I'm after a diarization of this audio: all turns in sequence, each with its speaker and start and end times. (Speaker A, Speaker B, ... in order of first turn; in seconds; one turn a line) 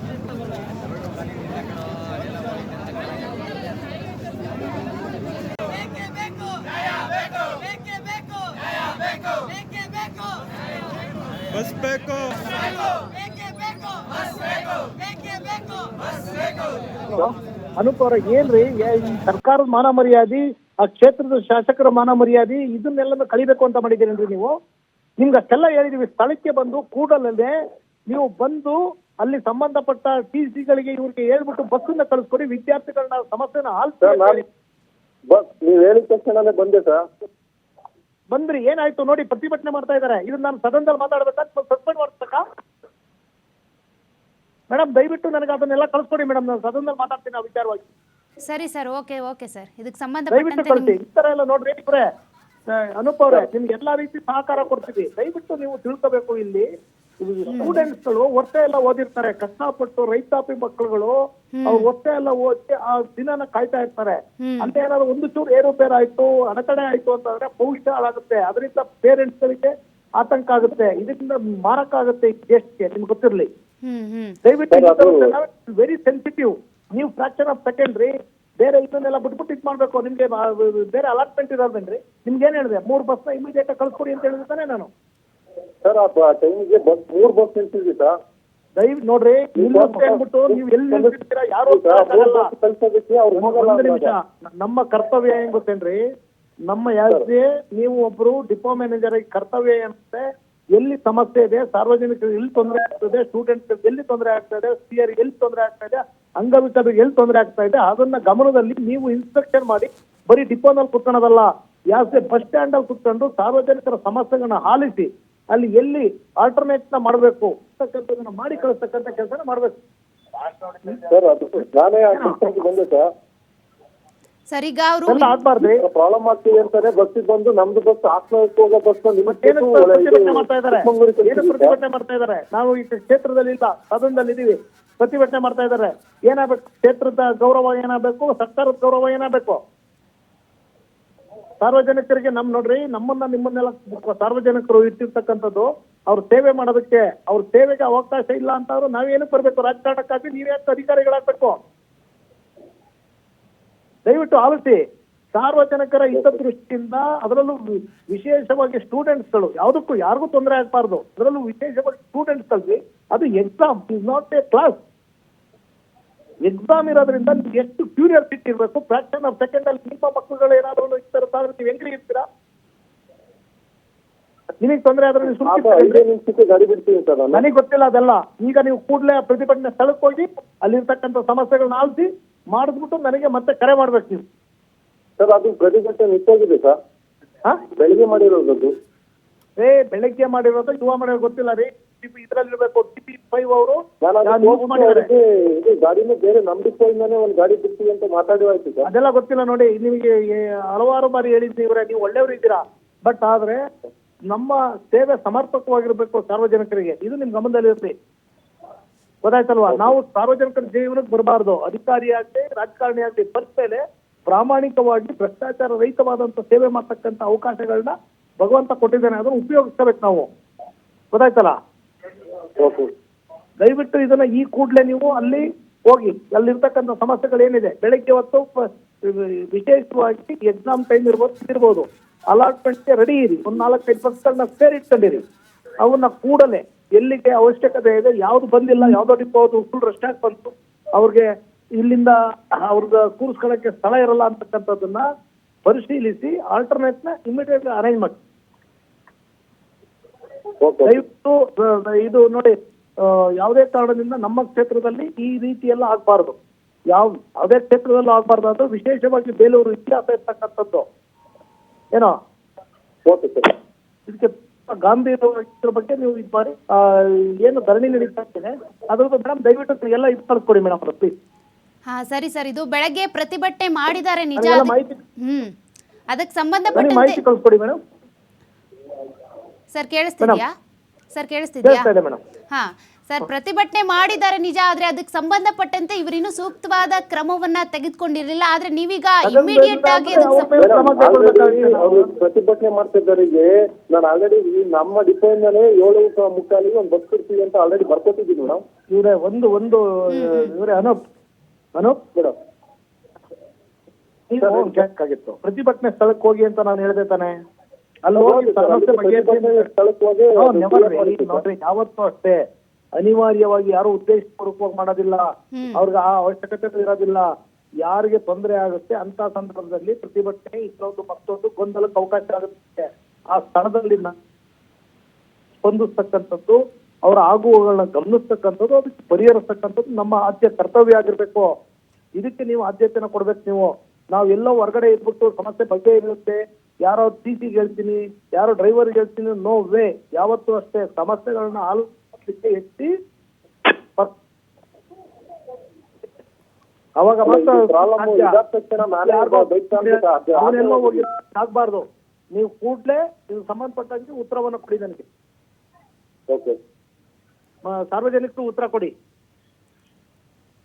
Speaker A: 17.1-24.5
Speaker A: 25.2-27.5
Speaker A: 28.1-34.4
Speaker B: 34.0-34.4
Speaker B: 35.3-37.0
Speaker A: 38.3-42.4
Speaker A: 44.7-47.8
Speaker C: 48.5-51.0
Speaker A: 50.3-52.0
Speaker A: 52.7-56.6
Speaker A: 57.2-61.1
Speaker C: 57.5-57.8
Speaker C: 61.5-61.9
Speaker A: 61.6-73.5
Speaker C: 64.4-64.7
Speaker C: 73.8-74.4
Speaker A: 74.4-84.9
Speaker B: 74.7-75.3
Speaker B: 85.8-88.1
Speaker A: 88.8-92.5
Speaker B: 89.6-91.1
Speaker B: 91.7-94.1
Speaker A: 93.3-96.0
Speaker A: 96.7-100.2
Speaker A: 100.8-119.7
Speaker B: 121.1-123.1
Speaker A: 122.1-122.4
Speaker C: 124.5-125.3
Speaker A: 125.1-125.8
Speaker B: 125.6-131.8
Speaker A: 129.2-139.6
Speaker A: 141.6-151.6
Speaker A: 154.1-154.8
Speaker A: 155.3-164.8
Speaker A: 166.4-172.2
Speaker A: 174.6-176.0
Speaker B: 175.3-177.4
Speaker A: 177.3-184.2
Speaker B: 185.2-186.8
Speaker B: 187.7-188.7
Speaker A: 189.6-195.1
Speaker B: 194.0-198.9
Speaker A: 198.8-203.6
Speaker A: 204.3-207.9
Speaker A: 209.2-220.3
Speaker A: 221.1-221.6
Speaker B: 222.6-222.9
Speaker A: 223.6-235.2
Speaker A: 235.8-245.1
Speaker A: 245.7-248.2
Speaker B: 250.6-251.0
Speaker A: 250.8-256.4
Speaker A: 256.9-260.8
Speaker B: 263.1-263.5
Speaker A: 264.1-271.1
Speaker C: 271.9-275.5
Speaker A: 274.4-275.0
Speaker C: 276.1-277.2
Speaker A: 276.7-277.8
Speaker C: 279.7-280.5
Speaker C: 281.1-281.9
Speaker A: 281.6-282.2
Speaker C: 282.5-290.5
Speaker A: 289.2-292.1
Speaker B: 290.6-298.6
Speaker A: 298.9-301.0
Speaker C: 300.1-300.5
Speaker A: 301.8-302.0
Speaker A: 304.3-307.3
Speaker B: 304.4-304.8
Speaker A: 308.1-309.6
Speaker B: 308.1-311.4
Speaker A: 310.4-312.4
Speaker A: 312.9-317.3
Speaker C: 315.5-315.8
Speaker A: 317.8-324.1
Speaker A: 325.6-331.5
Speaker A: 332.1-342.9
Speaker A: 347.0-348.4
Speaker B: 347.2-351.0
Speaker A: 348.9-355.0
Speaker B: 356.3-356.6
Speaker A: 357.6-358.9